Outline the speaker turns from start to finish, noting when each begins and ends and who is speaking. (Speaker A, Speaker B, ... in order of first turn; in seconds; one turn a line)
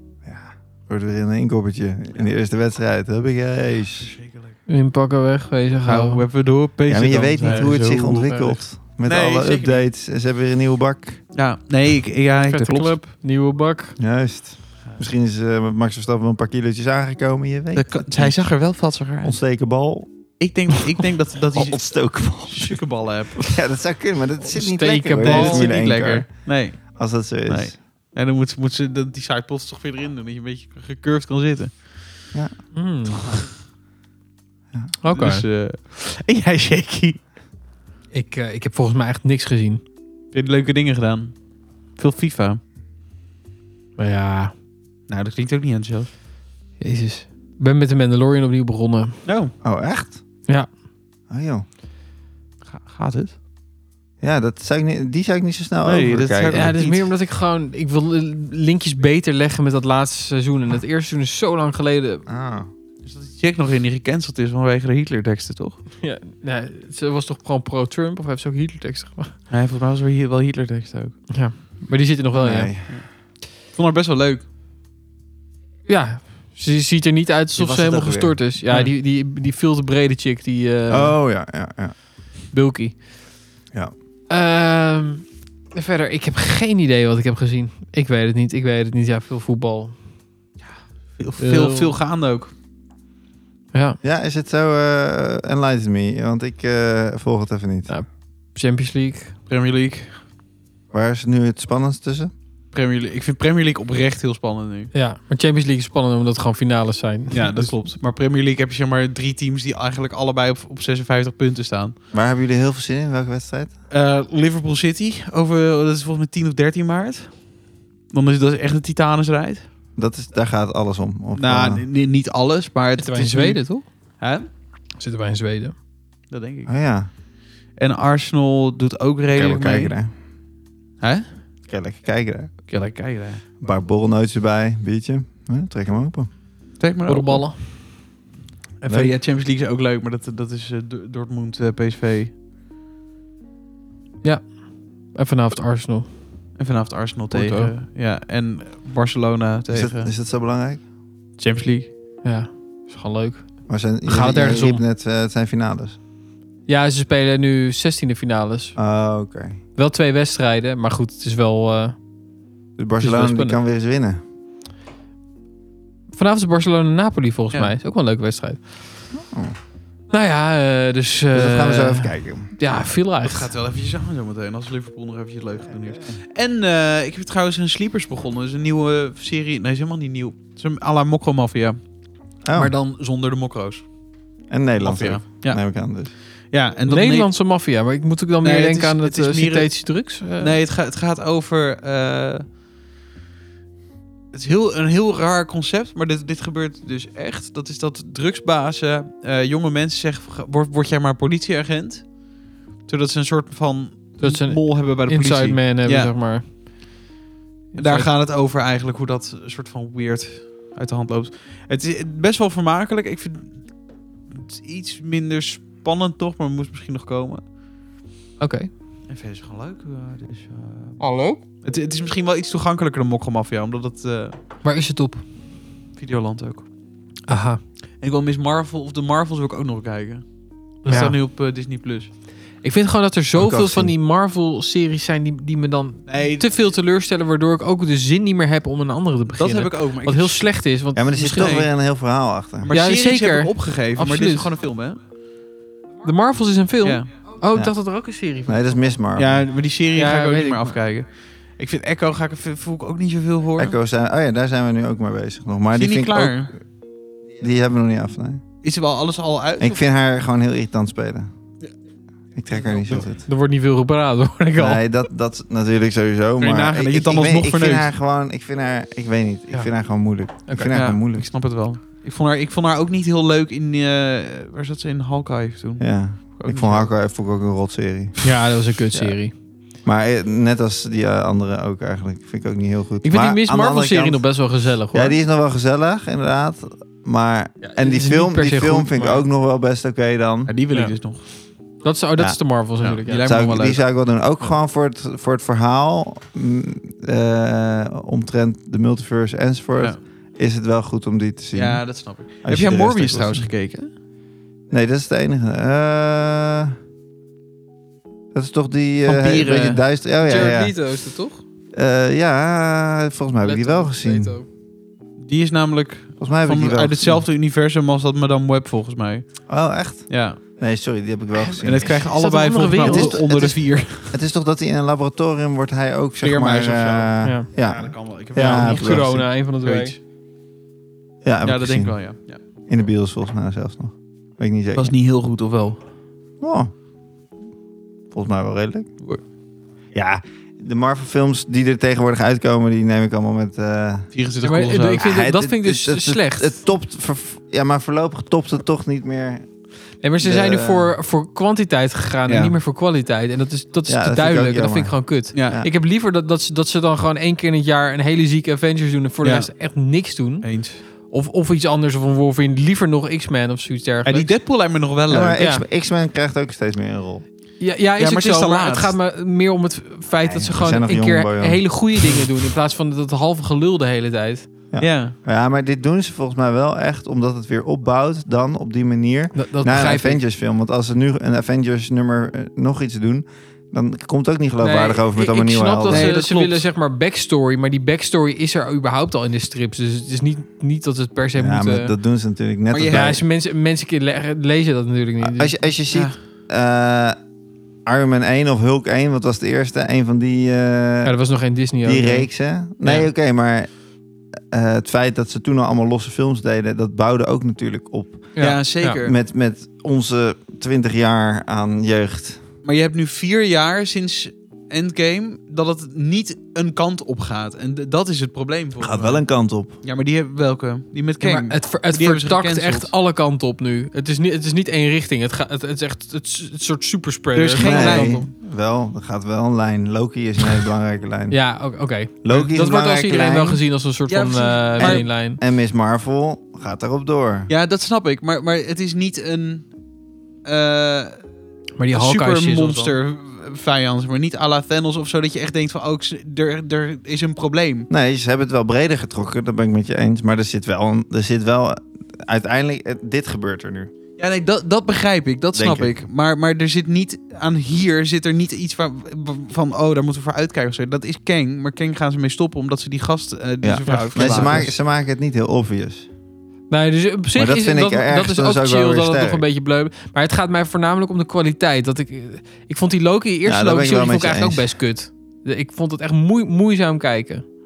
Speaker A: 0.2-4.1
Speaker B: 4.0-4.6
Speaker C: 4.7-6.2
Speaker B: 5.8-8.3
Speaker A: 6.9-11.2
Speaker C: 7.4-8.6
Speaker B: 9.0-9.8
Speaker B: 11.3-13.0
Speaker C: 12.3-14.0
Speaker A: 14.0-18.5
Speaker B: 17.7-19.4
Speaker A: 19.2-20.1
Speaker B: 20.4-23.5
Speaker A: 21.5-22.8
Speaker A: 23.4-26.3
Speaker C: 24.5-25.7
Speaker B: 25.2-31.9
Speaker A: 26.9-27.8
Speaker A: 32.3-32.6
Speaker C: 32.7-33.2
Speaker C: 35.0-35.4
Speaker B: 35.1-37.2
Speaker C: 38.1-39.8
Speaker B: 40.3-41.3
Speaker B: 42.0-42.6
Speaker C: 44.0-44.5
Speaker B: 45.1-46.1
Speaker C: 46.8-49.2
Speaker B: 49.2-49.5
Speaker A: 49.6-50.2
Speaker A: 51.3-51.6
Speaker B: 52.7-53.3
Speaker A: 54.2-56.8
Speaker B: 55.8-57.1
Speaker C: 56.5-62.2
Speaker A: 62.3-62.7
Speaker B: 63.0-65.8
Speaker C: 66.0-69.3
Speaker B: 69.5-71.2
Speaker C: 71.3-72.7
Speaker A: 72.3-73.0
Speaker B: 72.9-74.4
Speaker C: 75.9-81.2
Speaker A: 77.5-78.4
Speaker A: 80.9-82.0
Speaker C: 82.5-83.0
Speaker C: 84.3-90.0
Speaker B: 91.2-92.5
Speaker C: 91.4-92.0
Speaker C: 93.7-94.0
Speaker A: 94.0-97.9
Speaker C: 97.9-99.3
Speaker B: 99.5-100.2
Speaker A: 100.9-102.3
Speaker B: 102.7-104.9
Speaker C: 104.9-107.7
Speaker B: 107.3-111.9
Speaker A: 112.1-113.7
Speaker B: 113.9-117.5
Speaker B: 118.1-119.6
Speaker A: 120.0-121.8
Speaker B: 121.3-123.7
Speaker C: 123.0-123.8
Speaker B: 124.2-124.5
Speaker C: 125.0-125.7
Speaker B: 126.3-126.7
Speaker A: 126.7-127.1
Speaker B: 127.8-129.9
Speaker A: 129.3-130.1
Speaker B: 131.0-131.2
Speaker A: 131.7-132.5
Speaker B: 132.7-133.4
Speaker A: 133.6-136.3
Speaker B: 136.8-137.5
Speaker C: 137.1-137.6
Speaker B: 138.8-142.3
Speaker A: 138.8-139.1
Speaker C: 144.2-146.1
Speaker B: 146.6-150.1
Speaker C: 147.3-147.7
Speaker A: 149.7-150.8
Speaker B: 151.4-151.9
Speaker C: 152.2-154.8
Speaker A: 153.7-155.9
Speaker C: 156.7-158.8
Speaker A: 158.8-159.6
Speaker C: 159.8-162.0
Speaker A: 162.8-164.2
Speaker C: 163.0-163.6
Speaker C: 166.1-168.6
Speaker A: 169.1-169.6
Speaker C: 170.1-173.5
Speaker A: 171.3-172.5
Speaker B: 173.2-181.8
Speaker A: 175.9-176.2
Speaker A: 182.4-182.7
Speaker B: 182.5-183.9
Speaker A: 184.5-186.1
Speaker B: 184.8-185.6
Speaker B: 186.5-187.3
Speaker C: 186.9-190.6
Speaker B: 188.4-192.4
Speaker B: 194.3-202.3
Speaker B: 202.8-206.1
Speaker C: 204.2-206.4
Speaker C: 207.7-208.1
Speaker B: 207.8-213.7
Speaker B: 214.3-217.4
Speaker C: 218.4-218.7
Speaker B: 219.1-221.0
Speaker C: 221.0-221.4
Speaker B: 221.6-224.4
Speaker C: 224.6-225.2
Speaker B: 226.0-226.7
Speaker C: 227.3-227.6
Speaker B: 228.0-230.2
Speaker B: 230.8-232.1
Speaker C: 230.8-231.2
Speaker C: 232.6-241.6
Speaker A: 233.3-233.9
Speaker B: 236.1-236.5
Speaker B: 239.3-240.5
Speaker A: 240.9-242.7
Speaker B: 241.4-241.7
Speaker B: 242.6-245.0
Speaker C: 242.7-244.5
Speaker C: 246.0-248.8
Speaker B: 246.8-247.1
Speaker A: 248.4-249.4
Speaker B: 249.2-253.8
Speaker C: 249.9-250.8
Speaker A: 253.6-256.5
Speaker B: 255.7-256.5
Speaker A: 257.3-258.4
Speaker B: 258.6-259.8
Speaker A: 259.6-261.3
Speaker A: 262.3-263.2
Speaker B: 262.6-263.1
Speaker C: 263.2-264.8
Speaker A: 264.6-271.3
Speaker B: 266.4-267.9
Speaker C: 270.5-270.7
Speaker B: 270.7-276.9
Speaker A: 275.8-278.2
Speaker C: 278.2-279.3
Speaker A: 279.8-284.4
Speaker C: 283.0-285.1
Speaker A: 284.9-290.5
Speaker C: 287.6-289.2
Speaker B: 290.5-291.2
Speaker C: 291.8-293.4
Speaker B: 292.8-293.8
Speaker A: 293.1-301.9
Speaker B: 301.5-303.9
Speaker A: 302.4-303.5
Speaker A: 304.7-306.7
Speaker A: 308.3-310.7
Speaker B: 309.0-309.8
Speaker C: 310.2-311.4
Speaker A: 311.7-314.3
Speaker C: 313.4-314.5
Speaker B: 315.2-319.5
Speaker A: 316.2-317.2
Speaker A: 319.5-321.9
Speaker B: 320.1-320.4
Speaker C: 321.4-323.2
Speaker B: 321.6-324.2
Speaker A: 322.8-329.3
Speaker B: 326.2-329.1
Speaker C: 327.2-327.5
Speaker C: 328.3-329.9
Speaker B: 329.6-330.0
Speaker A: 331.2-332.0
Speaker B: 331.4-332.4
Speaker A: 332.6-334.9
Speaker B: 334.7-335.8
Speaker A: 336.4-336.7
Speaker A: 338.1-338.9
Speaker A: 339.9-344.1
Speaker B: 344.1-345.1
Speaker C: 344.4-346.6
Speaker A: 345.0-349.5
Speaker C: 350.0-364.3
Speaker A: 350.2-350.9
Speaker B: 352.3-352.5
Speaker A: 353.9-355.7
Speaker B: 355.3-355.6
Speaker B: 359.2-359.5
Speaker B: 360.4-360.8
Speaker B: 364.0-365.4
Speaker A: 365.1-367.2
Speaker C: 365.4-365.6
Speaker C: 367.6-374.5
Speaker B: 368.0-368.9
Speaker A: 370.2-371.7
Speaker A: 374.7-386.1
Speaker B: 374.8-375.1
Speaker C: 379.3-380.2
Speaker C: 384.6-391.9
Speaker B: 385.9-386.6
Speaker A: 391.3-393.2
Speaker B: 392.7-393.1
Speaker C: 392.9-395.6
Speaker A: 395.2-397.2
Speaker A: 397.9-401.1
Speaker C: 401.0-402.3
Speaker A: 401.8-403.7
Speaker A: 404.5-408.3
Speaker C: 408.3-409.0
Speaker B: 408.4-409.1
Speaker A: 408.9-412.4
Speaker B: 412.6-419.2
Speaker A: 418.8-419.7
Speaker B: 419.8-422.9
Speaker C: 421.2-428.3
Speaker B: 427.3-428.2
Speaker A: 427.6-431.4
Speaker C: 431.3-435.4
Speaker A: 432.2-433.6
Speaker B: 434.1-435.1
Speaker A: 434.8-437.5
Speaker B: 437.5-439.7
Speaker B: 440.4-441.2
Speaker C: 441.8-442.9
Speaker B: 441.9-447.9
Speaker A: 447.9-453.9
Speaker B: 454.2-464.7
Speaker A: 455.5-455.9
Speaker A: 463.6-466.1
Speaker C: 463.9-464.7
Speaker C: 466.7-477.4
Speaker A: 467.4-469.4
Speaker A: 473.4-474.7